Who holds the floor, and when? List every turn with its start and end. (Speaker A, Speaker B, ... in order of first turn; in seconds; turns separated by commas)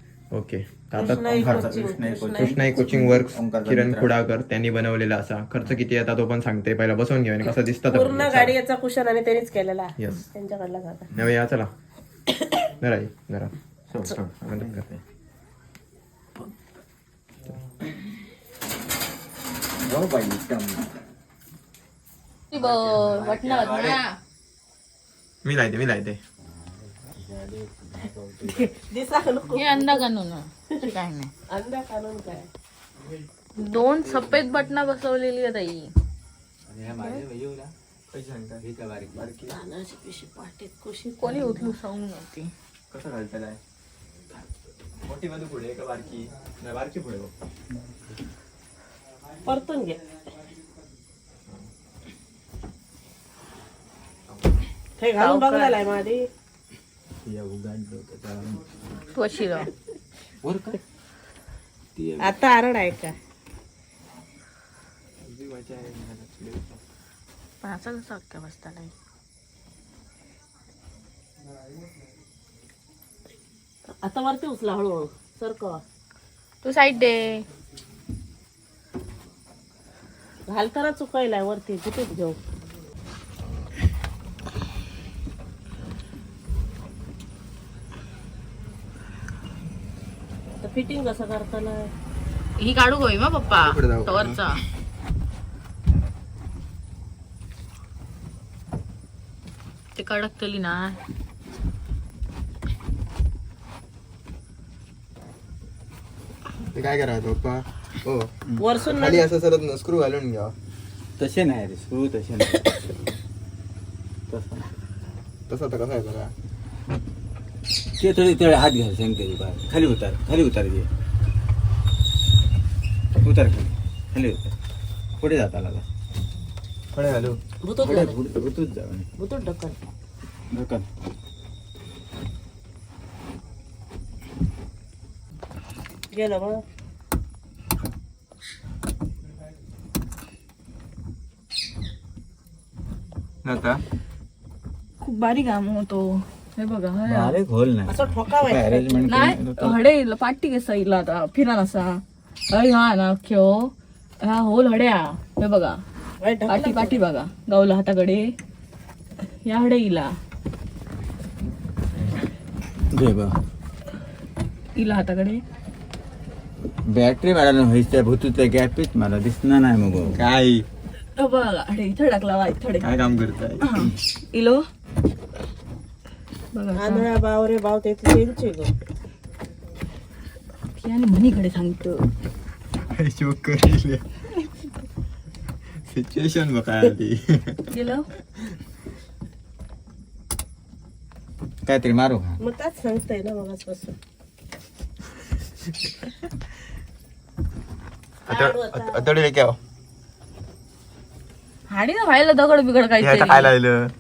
Speaker A: 0.3-1.8, Speaker B: 1.0-2.9, Speaker C: 1.3-4.1, Speaker A: 2.4-8.6, Speaker B: 7.4-11.1, Speaker A: 10.0-10.3, Speaker A: 11.1-11.7, Speaker A: 12.8-13.5, Speaker C: 13.9-15.0, Speaker A: 14.4-14.8, Speaker C: 19.8-20.9, Speaker D: 22.5-24.1, Speaker C: 22.5-24.0, Speaker A: 25.4-26.2, Speaker C: 26.4-28.7, Speaker B: 28.4-30.0, Speaker D: 29.5-31.3, Speaker B: 31.5-32.5, Speaker D: 33.6-35.9, Speaker C: 34.0-34.4, Speaker C: 36.7-37.7, Speaker A: 38.1-39.6, Speaker C: 38.6-39.2, Speaker B: 39.5-41.8, Speaker D: 41.2-42.5, Speaker A: 42.9-43.6, Speaker A: 45.0-47.3, Speaker B: 49.5-50.0, Speaker B: 55.0-56.2, Speaker D: 55.2-55.8, Speaker C: 57.2-58.7, Speaker D: 59.1-59.7, Speaker C: 60.4-60.8, Speaker C: 62.0-62.4, Speaker B: 62.2-63.1, Speaker A: 65.3-66.8, Speaker D: 67.6-68.9, Speaker B: 73.9-75.8, Speaker D: 76.6-77.5, Speaker B: 80.5-82.4, Speaker B: 90.6-91.9, Speaker D: 92.6-94.6, Speaker A: 93.5-94.4, Speaker D: 100.0-101.0, Speaker A: 106.7-108.3, Speaker B: 108.6-109.3, Speaker A: 108.8-110.5, Speaker C: 111.2-112.8, Speaker C: 114.3-114.7, Speaker A: 115.5-116.3, Speaker C: 118.0-120.9, Speaker C: 123.2-124.5, Speaker C: 125.2-125.8, Speaker A: 126.9-127.4, Speaker B: 127.6-128.2, Speaker C: 127.8-129.1, Speaker B: 129.2-129.8, Speaker C: 130.5-130.9, Speaker B: 136.1-136.6, Speaker A: 143.4-143.8, Speaker D: 145.0-147.4, Speaker C: 147.1-149.8, Speaker B: 147.9-149.1, Speaker D: 149.1-153.7, Speaker D: 154.2-155.8, Speaker B: 156.2-157.0, Speaker D: 156.5-158.3, Speaker D: 159.4-160.1, Speaker C: 162.9-163.4, Speaker D: 164.8-165.4, Speaker C: 166.9-170.7, Speaker D: 171.2-172.9, Speaker C: 172.8-174.0, Speaker D: 173.6-174.6, Speaker D: 176.5-177.1, Speaker B: 176.8-178.7, Speaker D: 180.7-182.1, Speaker A: 182.9-184.1, Speaker A: 185.9-187.6, Speaker D: 187.7-188.1, Speaker C: 191.7-192.4, Speaker B: 192.4-194.0, Speaker B: 198.3-199.0, Speaker A: 198.3-199.6, Speaker D: 201.7-203.5, Speaker A: 203.0-203.9